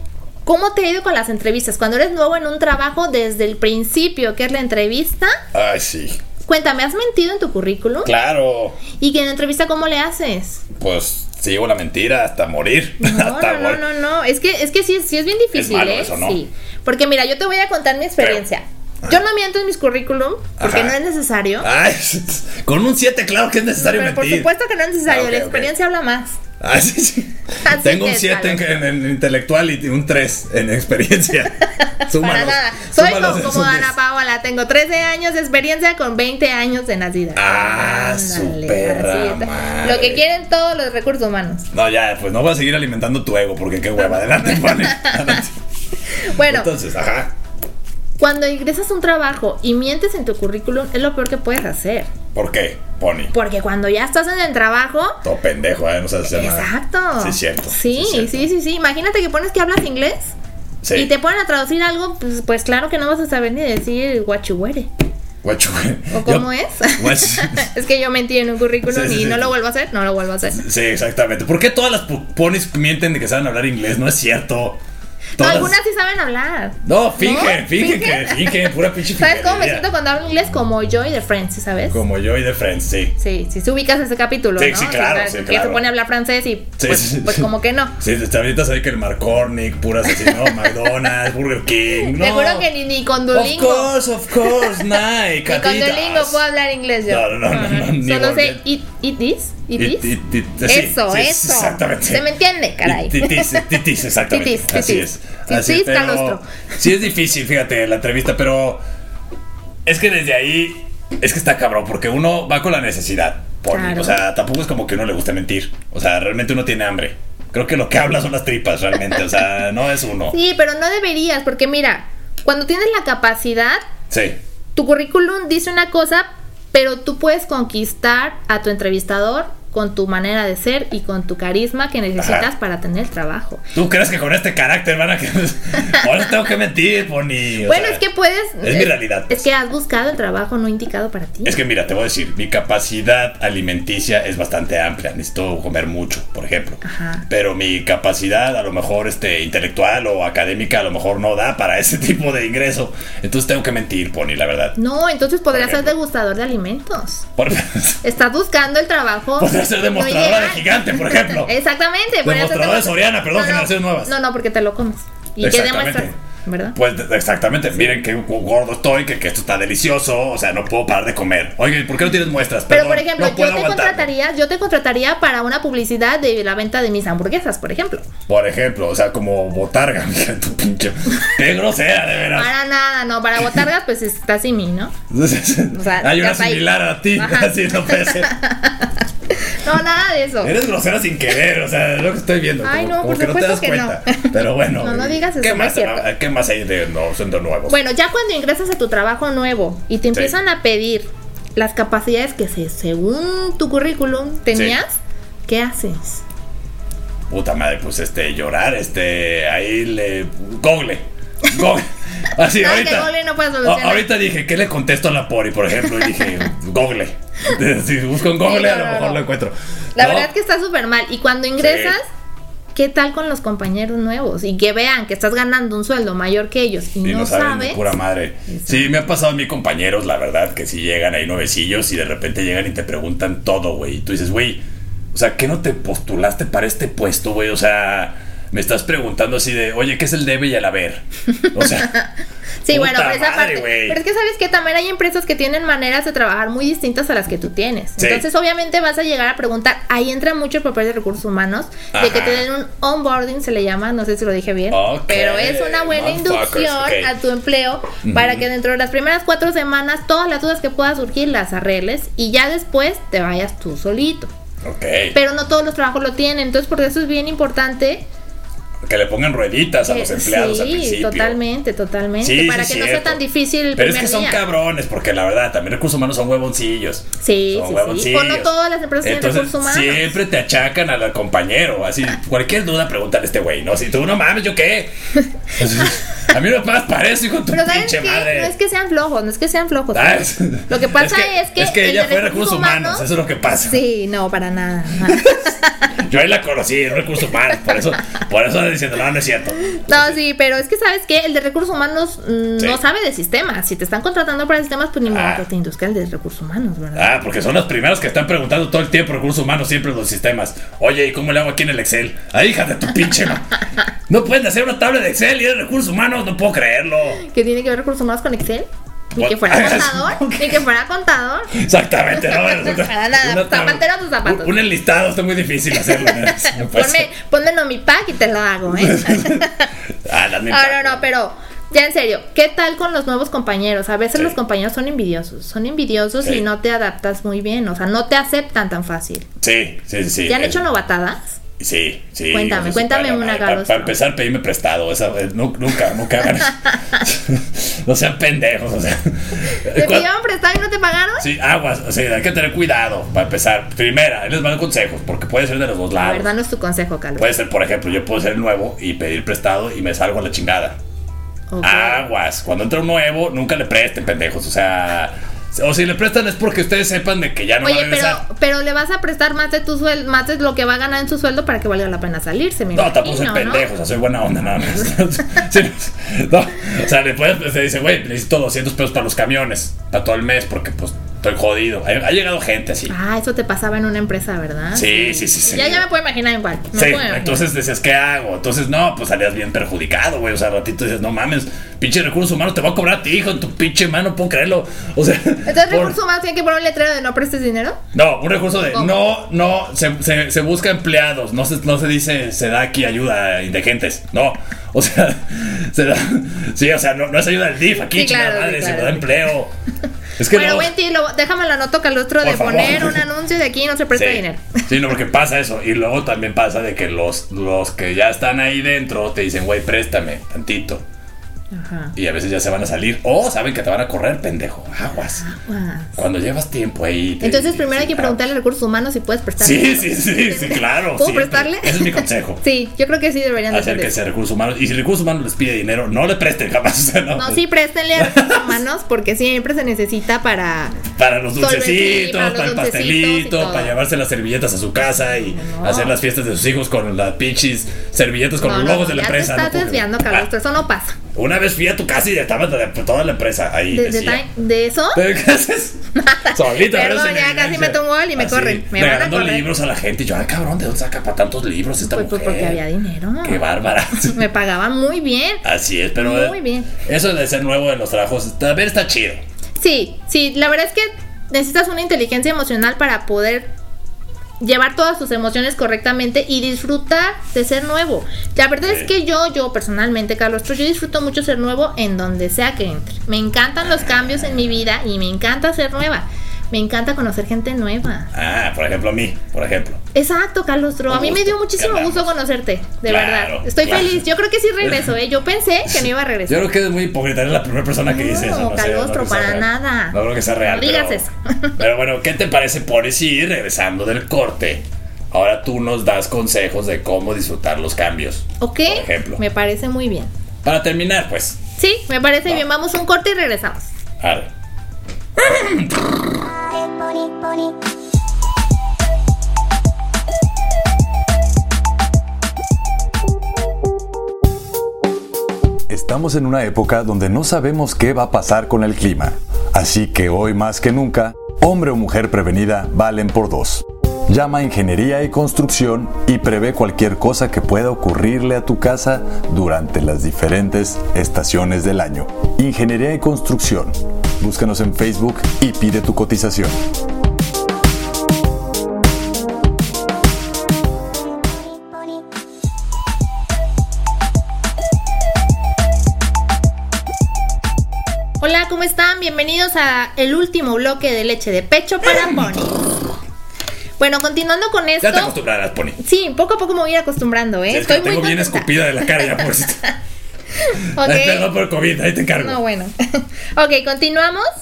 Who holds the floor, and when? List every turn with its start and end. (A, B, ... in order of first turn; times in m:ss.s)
0:00.4-0:05.4 A
0:05.5-0:06.2 B
0:06.5-0:08.1 A
0:08.0-0:08.8 B
0:08.9-0:10.6 A
0:10.8-0:13.8 B
0:13.0-0:21.7 A
0:15.6-0:16.4 B
0:20.6-0:21.0 B
0:21.6-0:24.5 B
0:23.8-0:26.4 A
0:25.1-0:25.7 B
0:26.6-0:33.9 B
0:27.6-0:28.6 A
0:31.8-0:41.7 A
0:37.4-0:40.2 B
0:41.7-0:45.5 B
0:46.2-0:46.7 A
0:46.4-0:47.3 B
0:48.2-0:52.1 A
0:52.3-0:53.3 B
0:53.3-0:55.2 A
0:55.2-0:58.5 B
0:56.3-1:00.3 A
1:00.8-1:01.1 B
1:00.9-1:04.9 A
1:05.4-1:07.7 B
1:06.1-1:10.6 A
1:08.9-1:09.5 B
1:10.5-1:14.8 B
1:15.4-1:22.0 A
1:15.4-1:15.8 B
1:16.8-1:19.9 B
1:21.9-1:23.2 B
1:23.2-1:27.9 A
1:24.6-1:25.8 B
1:26.8-1:32.7 B
1:30.2-1:30.8 A
1:32.2-1:33.9 A
1:33.3-1:36.4 B
1:34.4-1:34.8 A
1:35.5-1:40.1 A
1:37.1-1:38.6 B
1:39.8-1:42.3 B
1:40.7-1:43.7 A
1:42.8-1:48.8 B
1:44.3-1:46.5 A
1:49.9-2:00.4 B
1:53.7-1:54.2 A
2:00.3-2:03.8 A
2:04.1-2:04.4 B
2:04.8-2:13.6 A
2:12.2-2:12.5 B
2:13.8-2:18.0 B
2:17.6-2:21.6 A
2:18.6-2:19.5 B
2:21.4-2:34.8 B
2:26.8-2:27.2 A
2:34.8-2:37.3 A
2:35.5-2:35.9 B
2:37.4-2:38.0 B
2:38.0-2:46.8 A
2:39.4-2:41.5 B
2:42.2-2:44.1 B
2:45.4-2:46.2 B
2:46.8-2:54.1 B
2:52.7-2:58.1 A
2:58.3-3:02.5 B
3:02.3-3:04.9 A
3:05.1-3:08.4 B
3:05.7-3:08.9 A
3:09.4-3:10.5 A
3:10.4-3:17.8 B
3:12.6-3:16.1 A
3:17.7-3:26.2 A
3:27.3-3:40.3 B
3:32.6-3:34.1 A
3:38.4-3:39.2 A
3:40.0-3:42.0 A
3:41.6-3:42.0 B
3:42.7-3:47.8 A
3:47.0-3:54.6 B
3:48.5-3:48.9 A
3:55.1-4:01.9 B
4:01.4-4:02.1 A
4:02.6-4:24.3 A
4:02.7-4:04.0 B
4:08.0-4:08.2 B
4:11.9-4:12.4 B
4:14.7-4:17.1 B
4:18.0-4:18.4 B
4:24.6-4:25.2 B
4:25.1-4:28.1 A
4:28.9-4:31.4 B
4:29.9-4:34.4 A
4:32.2-4:33.2 B
4:33.8-4:38.5 B
4:37.2-4:40.1 A
4:39.0-4:44.9 B
4:45.6-4:48.5 B
4:47.5-4:53.1 A
4:49.9-4:53.8 B
4:53.7-4:55.9 A
4:55.1-5:00.2 B
4:59.9-5:07.2 A
5:05.1-5:05.4 B
5:07.0-5:17.2 B
5:17.2-5:21.5 A
5:19.2-5:20.6 B
5:21.5-5:27.1 B
5:22.5-5:24.5 A
5:25.9-5:29.7 A
5:28.8-5:29.5 B
5:30.0-5:31.0 B
5:30.5-5:39.3 A
5:39.4-5:40.6 B
5:40.3-5:41.4 A
5:41.6-5:50.1 B
5:42.3-5:44.0 A
5:49.7-5:51.3 A
5:51.2-5:56.3 B
5:56.0-5:57.3 A
5:57.2-6:00.8 B
6:01.5-6:02.1 A
6:01.6-6:08.2 B
6:07.6-6:13.7 A
6:12.8-6:22.9 B
6:22.9-6:27.4 A
6:24.7-6:25.8 B
6:26.7-6:36.0 B
6:35.5-6:37.8 A
6:37.9-6:49.5 B
6:38.7-6:39.0 A
6:47.9-6:49.3 A
6:50.2-6:50.7 B
6:50.3-6:54.6 A
6:52.2-6:53.0 B
6:53.9-7:00.8 B
7:01.5-7:01.9 A
7:02.0-7:05.2 B
7:05.2-7:06.0 A
7:06.0-7:08.2 B
7:07.2-7:13.9 A
7:09.4-7:12.4 B
7:13.5-7:17.4 B
7:17.2-7:20.8 A
7:18.0-7:18.6 B
7:21.0-7:30.3 B
7:21.4-7:23.8 A
7:25.0-7:26.0 A
7:28.4-7:31.0 A
7:31.1-7:34.2 B
7:33.7-7:35.0 A
7:34.9-7:35.8 B
7:36.0-7:39.5 A
7:36.3-7:42.6 B
7:41.9-7:43.4 A
7:43.2-7:44.2 B
7:44.0-7:45.4 A
7:45.4-7:49.2 B
7:46.0-7:46.7 A
7:49.6-7:53.5 A
7:54.4-8:08.1 A
8:03.6-8:04.5 B
8:08.1-8:09.8 B
8:09.9-8:16.5 A
8:10.9-8:12.1 B
8:12.9-8:14.0 B
8:14.6-8:15.0 B
8:15.7-8:21.0 B
8:17.9-8:21.6 A
8:21.6-8:29.2 B
8:28.4-8:30.1 A
8:30.4-8:31.4 B
8:31.6-8:33.7 A
8:34.0-8:34.3 B
8:35.2-8:35.9 B
8:45.7-9:06.6 C
9:18.2-9:22.8 A
9:23.8-9:25.2 A
9:24.8-9:25.8 B
9:25.8-9:29.7 A
9:27.5-9:29.6 B
9:30.4-9:31.3 A
9:30.8-9:32.4 B
9:32.2-9:34.3 A